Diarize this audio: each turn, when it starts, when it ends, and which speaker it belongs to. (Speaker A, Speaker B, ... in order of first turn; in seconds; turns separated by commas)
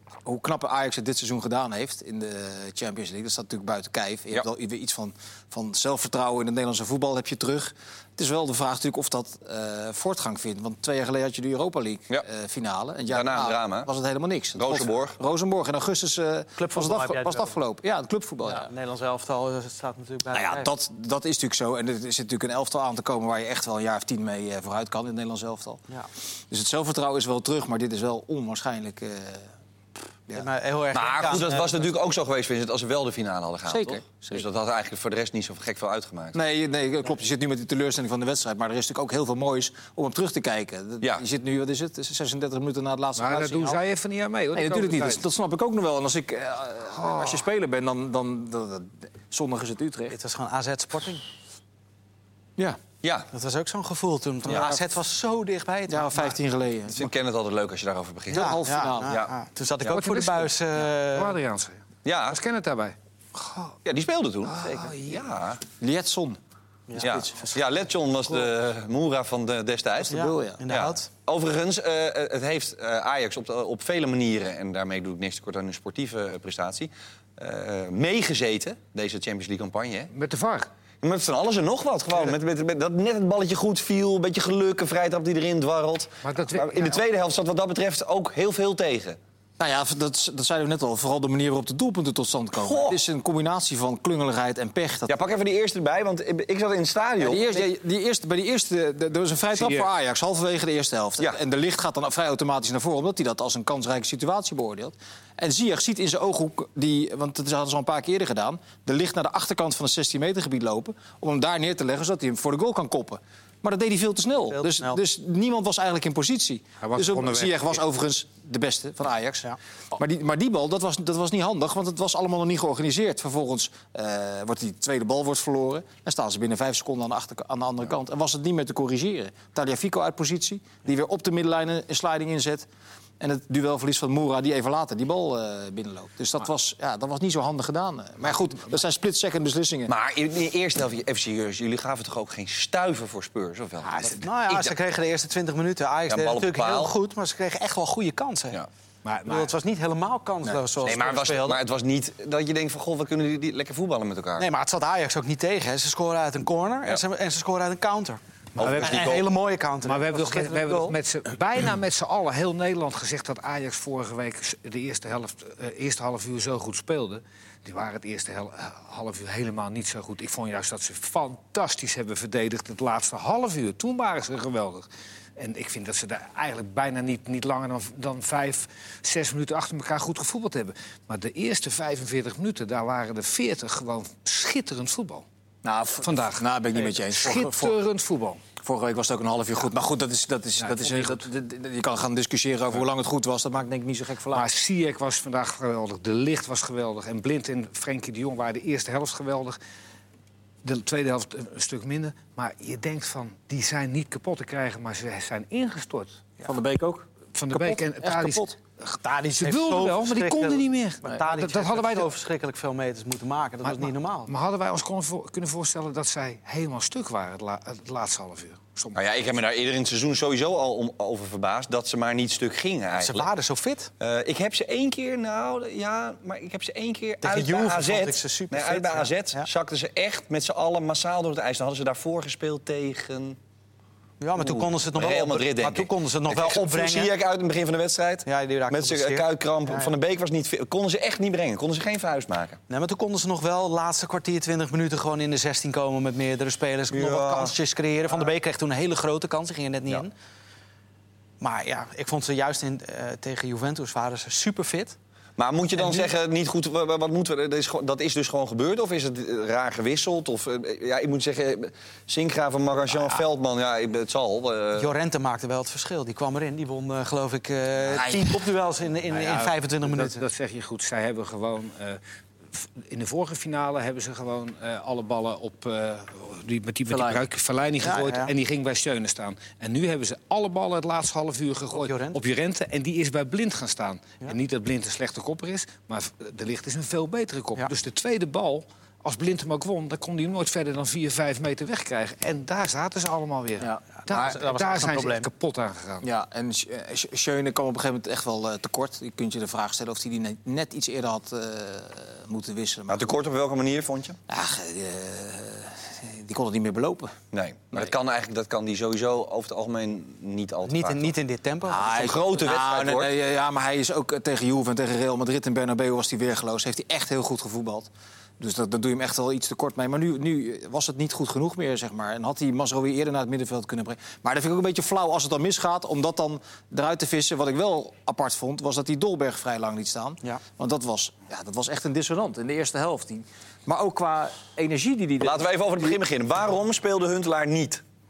Speaker A: 0.2-18.7, Speaker B: 13.1-13.9, Speaker B: 14.5-15.2, Speaker C: 16.6-17.6, Speaker C: 18.5-20.7, Speaker A: 20.3-25.8, Speaker A: 26.5-29.5, Speaker C: 30.3-31.8, Speaker B: 30.9-36.4, Speaker A: 33.6-34.4, Speaker A: 36.3-43.8, Speaker D: 43.2-45.2, Speaker A: 44.5-50.2, Speaker D: 47.0-47.3, Speaker C: 50.1-51.2, Speaker B: 53.0-53.3, Speaker C: 53.3-56.3, Speaker A: 55.9-57.1, Speaker B: 56.9-58.6, Speaker A: 58.3-59.2, Speaker C: 58.3-61.4, Speaker B: 59.1-59.9, Speaker D: 59.9-63.8, Speaker B: 62.0-62.4, Speaker B: 63.8-65.6, Speaker D: 64.4-65.4, Speaker A: 65.8-66.4, Speaker A: 66.9-67.5, Speaker B: 67.0-80.1, Speaker A: 70.0-70.6, Speaker C: 70.1-71.1, Speaker D: 80.1-80.7, Speaker B: 81.0-89.2, Speaker D: 86.2-87.0, Speaker A: 89.6-95.1, Speaker B: 92.6-93.0, Speaker B: 95.1-97.6, Speaker A: 97.2-132.7, Speaker D: 99.6-99.9, Speaker C: 114.5-115.0, Speaker D: 116.8-117.8, Speaker A: 133.2-139.9, Speaker B: 139.9-144.7, Speaker D: 143.8-144.2, Speaker C: 144.0-148.6, Speaker B: 146.1-146.9, Speaker D: 149.0-149.5, Speaker C: 149.3-151.6, Speaker B: 150.8-154.5, Speaker C: 154.4-158.2, Speaker D: 158.5-159.2, Speaker B: 158.6-159.2, Speaker C: 158.7-161.0, Speaker D: 159.8-185.2, Speaker A: 185.6-187.8, Speaker D: 186.0-188.4, Speaker A: 188.6-194.5, Speaker D: 190.6-191.2, Speaker D: 194.3-199.6, Speaker D: 200.6-206.2, Speaker A: 206.4-208.6, Speaker D: 207.3-208.5, Speaker C: 209.0-214.3, Speaker D: 209.4-212.1, Speaker D: 213.6-219.0, Speaker B: 218.9-223.3, Speaker C: 222.9-223.9, Speaker B: 224.0-233.4, Speaker C: 227.2-229.5, Speaker C: 234.2-237.1, Speaker B: 234.4-242.6, Speaker C: 238.2-239.9, Speaker C: 242.7-250.1, Speaker B: 246.9-247.6, Speaker C: 251.4-254.9, Speaker B: 255.4-264.9, Speaker C: 255.8-256.1, Speaker C: 264.8-270.2, Speaker A: 267.9-268.4, Speaker D: 269.1-272.0, Speaker D: 272.5-296.0, Speaker A: 276.9-277.2, Speaker C: 277.8-278.3, Speaker C: 281.7-282.2, Speaker C: 294.1-295.3, Speaker A: 296.0-303.1, Speaker B: 302.9-304.2, Speaker A: 304.3-307.1, Speaker B: 307.3-311.1, Speaker C: 310.7-312.1, Speaker A: 311.6-336.0, Speaker B: 311.8-313.1, Speaker B: 335.2-337.8